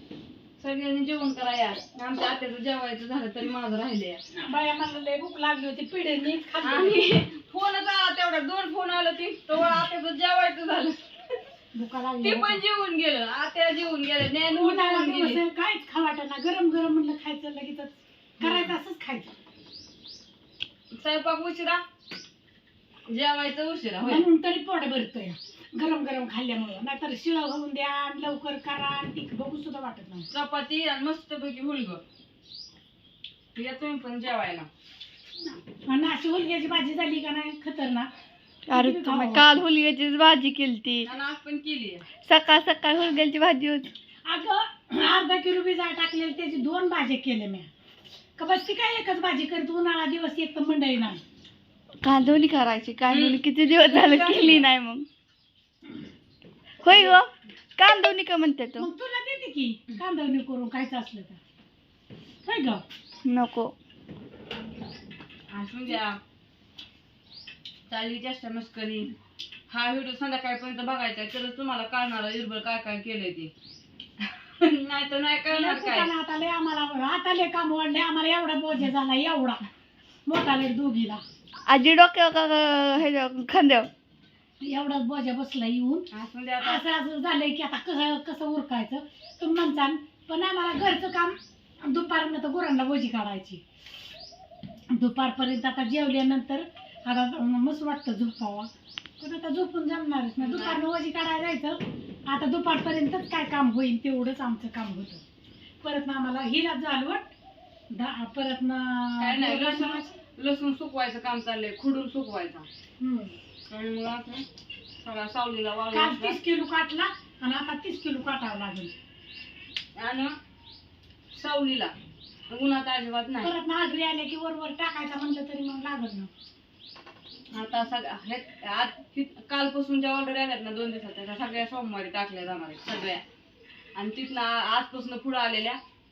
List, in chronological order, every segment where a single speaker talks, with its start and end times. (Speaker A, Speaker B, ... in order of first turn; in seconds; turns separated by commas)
Speaker A: 0.6-4.2, Speaker B: 4.3-7.0, Speaker A: 6.6-11.0, Speaker B: 11.7-12.6, Speaker A: 12.2-15.4, Speaker B: 14.5-19.3, Speaker A: 18.4-18.7, Speaker A: 21.0-21.8, Speaker A: 23.1-24.3, Speaker B: 24.0-30.3, Speaker A: 30.3-32.0, Speaker A: 33.5-34.7, Speaker B: 35.5-38.1, Speaker C: 38.7-41.1, Speaker B: 38.7-39.5, Speaker A: 41.0-42.0, Speaker C: 42.2-43.9, Speaker B: 44.2-47.7, Speaker B: 48.4-51.2, Speaker C: 52.0-55.0, Speaker A: 53.1-54.7, Speaker C: 56.8-58.9, Speaker A: 56.9-57.2, Speaker B: 58.8-61.4, Speaker B: 62.5-62.8, Speaker C: 63.2-63.7, Speaker A: 65.5-66.2, Speaker A: 67.9-69.1, Speaker A: 69.7-73.5, Speaker A: 74.2-76.1, Speaker B: 75.5-79.7, Speaker B: 80.3-81.2, Speaker C: 81.7-83.9, Speaker B: 84.6-86.1, Speaker A: 86.1-86.8, Speaker B: 86.6-93.6, Speaker B: 94.9-98.7, Speaker B: 99.2-105.2, Speaker A: 100.4-100.8, Speaker B: 105.8-107.3, Speaker B: 107.9-110.2, Speaker A: 109.2-112.7, Speaker B: 113.0-113.4, Speaker A: 113.7-114.5, Speaker A: 115.0-116.4, Speaker B: 115.9-118.9, Speaker A: 120.0-120.3, Speaker A: 121.3-121.9, Speaker A: 122.5-123.5, Speaker B: 123.4-126.3, Speaker A: 127.5-133.2, Speaker A: 133.9-135.8